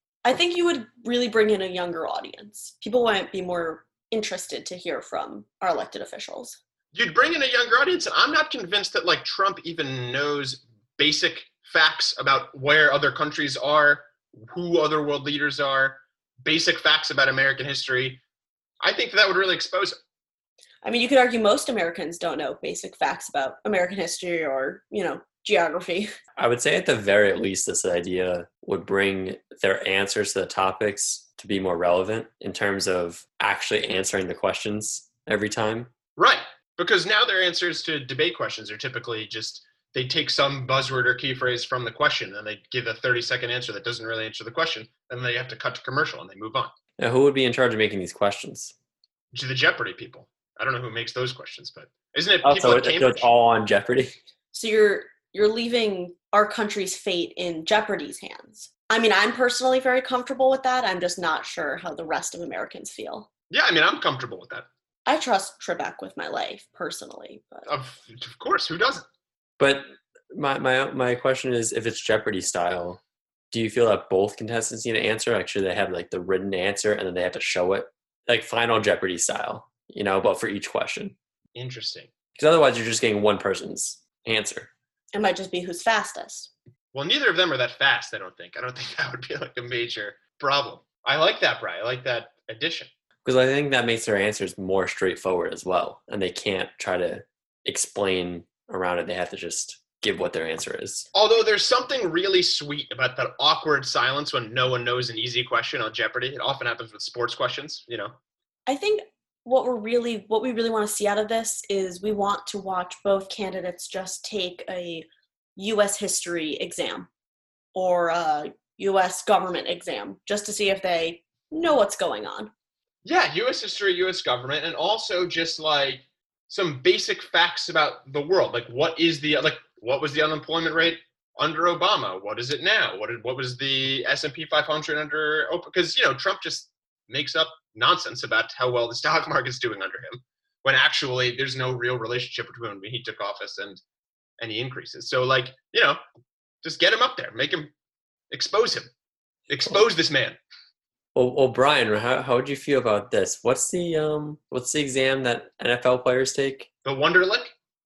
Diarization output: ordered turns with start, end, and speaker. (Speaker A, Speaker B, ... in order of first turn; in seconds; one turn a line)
Speaker A: 0.2-6.6
Speaker B: 6.9-18.2
Speaker B: 18.8-20.0
Speaker A: 20.8-26.1
Speaker C: 26.4-35.9
Speaker B: 36.2-46.7
Speaker C: 47.0-48.7
Speaker B: 49.3-53.3
Speaker C: 52.4-54.1
Speaker A: 54.5-63.3
Speaker B: 63.5-64.7
Speaker A: 65.0-67.7
Speaker B: 67.7-69.0
Speaker C: 69.6-73.0
Speaker C: 73.5-81.1
Speaker B: 81.5-82.1
Speaker C: 82.3-84.7
Speaker A: 85.1-86.5
Speaker B: 86.9-92.9
Speaker C: 93.2-101.1
Speaker B: 101.1-108.1
Speaker A: 108.7-117.1
Speaker A: 117.7-122.5
Speaker B: 123.0-143.8
Speaker B: 144.4-146.0
Speaker B: 146.6-147.7
Speaker B: 148.3-148.9
Speaker B: 149.5-150.4
Speaker C: 151.1-156.7
Speaker B: 156.8-157.5